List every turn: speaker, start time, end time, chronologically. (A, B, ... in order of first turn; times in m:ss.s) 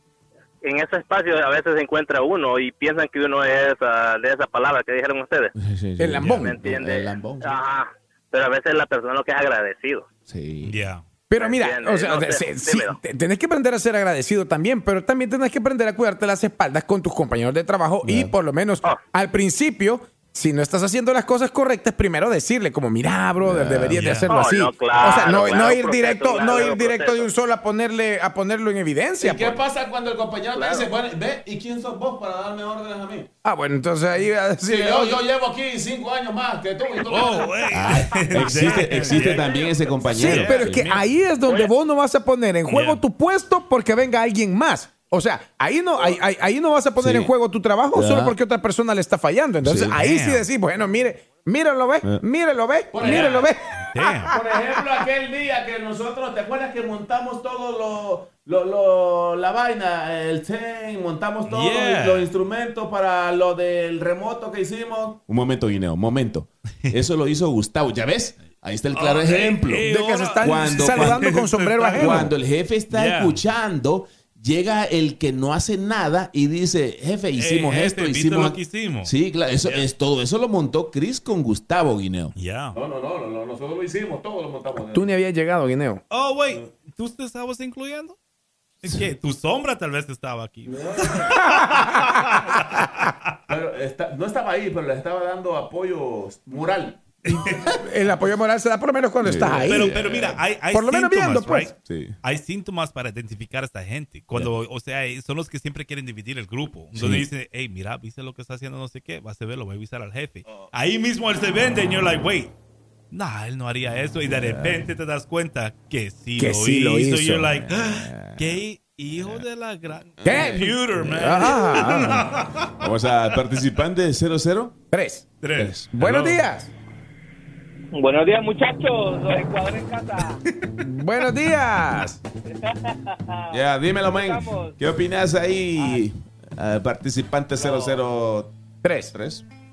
0:00.6-0:05.5 A
0:05.6-0:07.6 B
0:06.0-0:06.6 C
0:06.7-0:10.0 A
0:10.3-0:10.7 B
0:10.6-0:11.0 D
0:11.3-0:29.6 C
0:11.4-0:12.9 A
0:18.0-0:18.3 B
0:23.4-0:24.1 B
0:23.9-0:24.3 D
0:24.3-0:27.1 A
0:25.3-0:25.8 B
0:29.2-0:33.3 B
0:30.6-0:30.8 A
0:33.4-0:35.2 C
0:34.7-0:41.0 B
0:37.1-0:40.8 D
0:39.0-0:39.9 E
0:40.1-0:54.8 C
0:42.7-0:43.0 D
0:47.0-0:47.3 B
0:47.9-0:48.4 B
0:49.6-0:50.0 B
0:49.9-0:50.5 D
0:52.9-0:53.5 B
0:53.0-0:54.3 D
0:54.3-1:09.9 B
1:01.5-1:02.3 D
1:08.9-1:12.3 D
1:09.8-1:12.3 C
1:10.4-1:11.3 B
1:11.9-1:25.1 B
1:12.9-1:13.4 D
1:17.4-1:19.9 D
1:22.4-1:22.8 D
1:24.9-1:26.0 C
1:26.1-1:28.2 D
1:28.8-1:33.1 D
1:30.6-1:31.4 B
1:31.6-1:31.8 C
1:33.5-1:37.7 B
1:37.3-1:37.6 D
1:37.7-1:39.9 C
1:39.2-1:40.4 B
1:39.7-1:52.5 D
1:40.7-1:41.8 C
1:41.8-1:42.2 B
1:47.0-1:47.3 B
1:53.1-2:03.4 D
1:54.4-1:54.8 B
1:56.4-1:57.5 C
1:57.6-1:58.6 B
1:59.2-1:59.4 B
2:00.2-2:00.7 B
2:00.2-2:02.3 C
2:02.8-2:04.8 B
2:04.9-2:05.2 C
2:05.4-2:06.4 D
2:05.6-2:05.9 B
2:05.9-2:06.7 C
2:07.9-2:10.4 E
2:10.8-2:12.2 C
2:12.4-2:14.8 E
2:13.5-2:18.5 B
2:15.8-2:16.0 E
2:17.6-2:18.0 E
2:18.8-2:19.1 C
2:19.1-2:19.4 B